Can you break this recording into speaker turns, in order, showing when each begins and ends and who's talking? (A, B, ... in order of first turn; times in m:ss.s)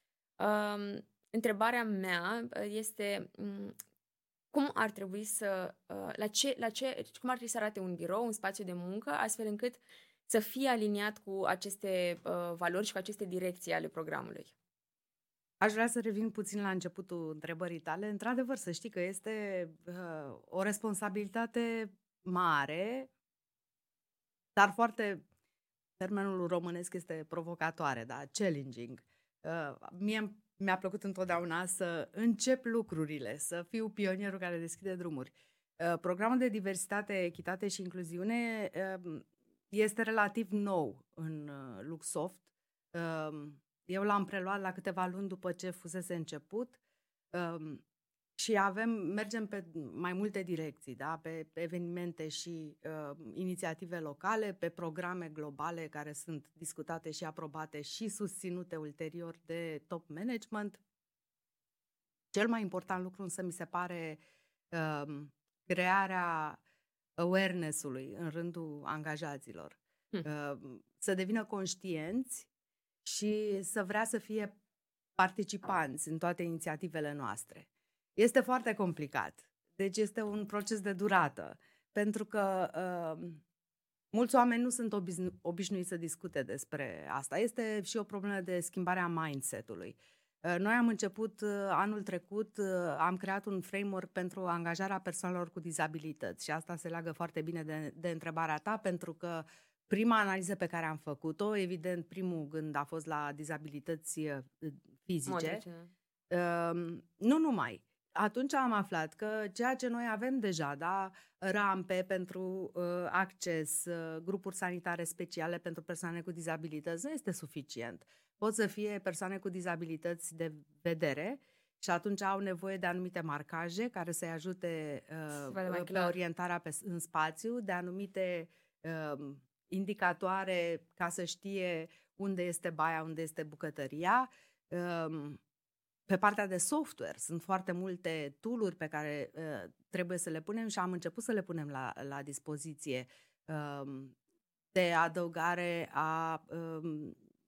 0:00.4-0:03.8 A
0:04.5-0:14.5 A
0:15.6-0:23.1 B
0:24.6-0:25.3 B
0:26.0-0:46.8 B
0:47.3-0:47.8 B
0:48.4-1:00.8 B
1:02.3-1:06.6 B
1:07.2-1:12.5 B
1:13.0-1:14.6 B
1:15.2-1:23.4 B
1:24.1-1:45.6 B
1:45.3-1:45.9 A
1:46.3-2:15.4 B
2:05.4-2:06.2 A
2:16.1-2:24.2 B
2:24.7-2:27.2 B